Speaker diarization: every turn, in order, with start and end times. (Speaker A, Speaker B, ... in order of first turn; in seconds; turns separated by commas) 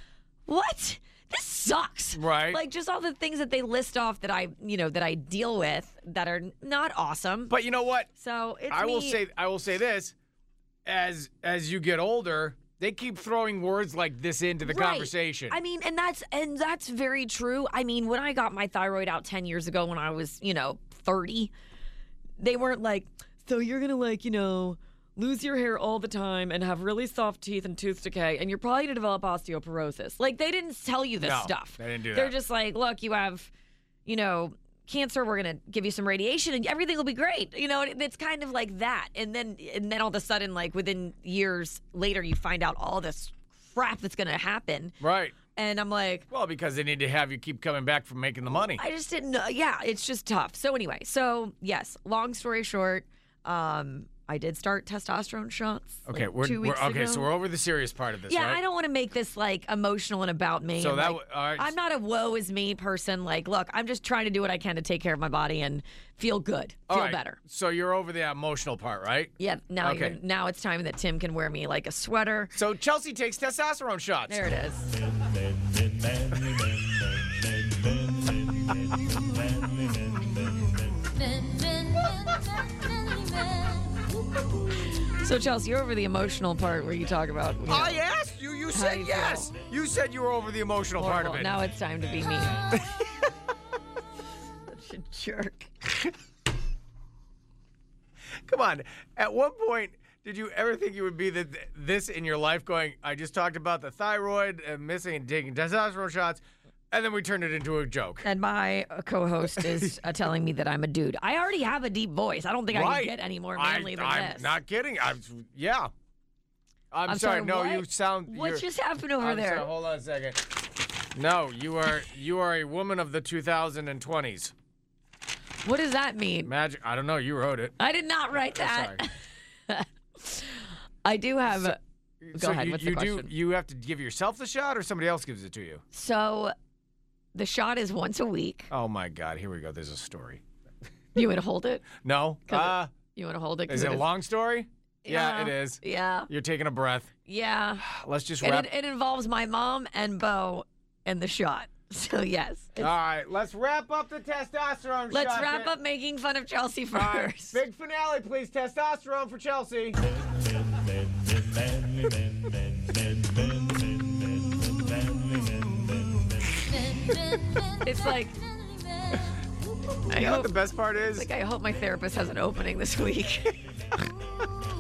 Speaker A: 0.5-7.5, Speaker B: 2.1-2.6, Speaker B: 7.5-8.1, Speaker A: 8.2-9.2, Speaker B: 8.7-10.1, Speaker B: 10.8-15.6, Speaker A: 14.6-21.5, Speaker A: 22.4-33.5, Speaker B: 31.2-32.4, Speaker A: 34.1-45.0, Speaker B: 45.0-45.4, Speaker A: 45.5-46.3, Speaker B: 46.3-48.8, Speaker A: 48.6-57.3, Speaker B: 56.1-58.6, Speaker A: 58.3-67.4, Speaker B: 60.8-61.7, Speaker B: 66.9-70.2, Speaker A: 69.4-72.5, Speaker B: 72.5-74.4, Speaker A: 74.3-75.0, Speaker A: 85.2-88.0, Speaker B: 87.7-91.6, Speaker A: 88.7-89.5, Speaker A: 91.0-92.6, Speaker B: 92.7-93.3, Speaker A: 94.7-95.7, Speaker B: 98.5-108.3, Speaker A: 108.2-114.6, Speaker B: 109.5-109.9, Speaker B: 112.7-115.9, Speaker B: 116.9-118.7, Speaker A: 117.1-119.7, Speaker B: 119.2-120.5, Speaker B: 121.1-124.5, Speaker A: 125.6-126.5, Speaker B: 126.4-127.8, Speaker A: 127.8-129.1, Speaker B: 128.3-129.0, Speaker A: 129.7-131.8, Speaker B: 131.5-135.8, Speaker A: 132.3-133.3, Speaker A: 135.9-136.5, Speaker A: 137.3-138.7, Speaker B: 138.7-140.4, Speaker A: 141.2-141.9, Speaker B: 142.0-142.9, Speaker A: 142.5-144.1, Speaker B: 143.7-147.1, Speaker A: 145.0-146.3, Speaker A: 147.3-147.8, Speaker B: 147.8-148.7, Speaker A: 148.4-152.9, Speaker B: 152.8-155.7, Speaker A: 155.1-157.6, Speaker B: 156.9-160.0, Speaker A: 167.8-168.4, Speaker A: 170.1-173.6, Speaker B: 170.1-171.3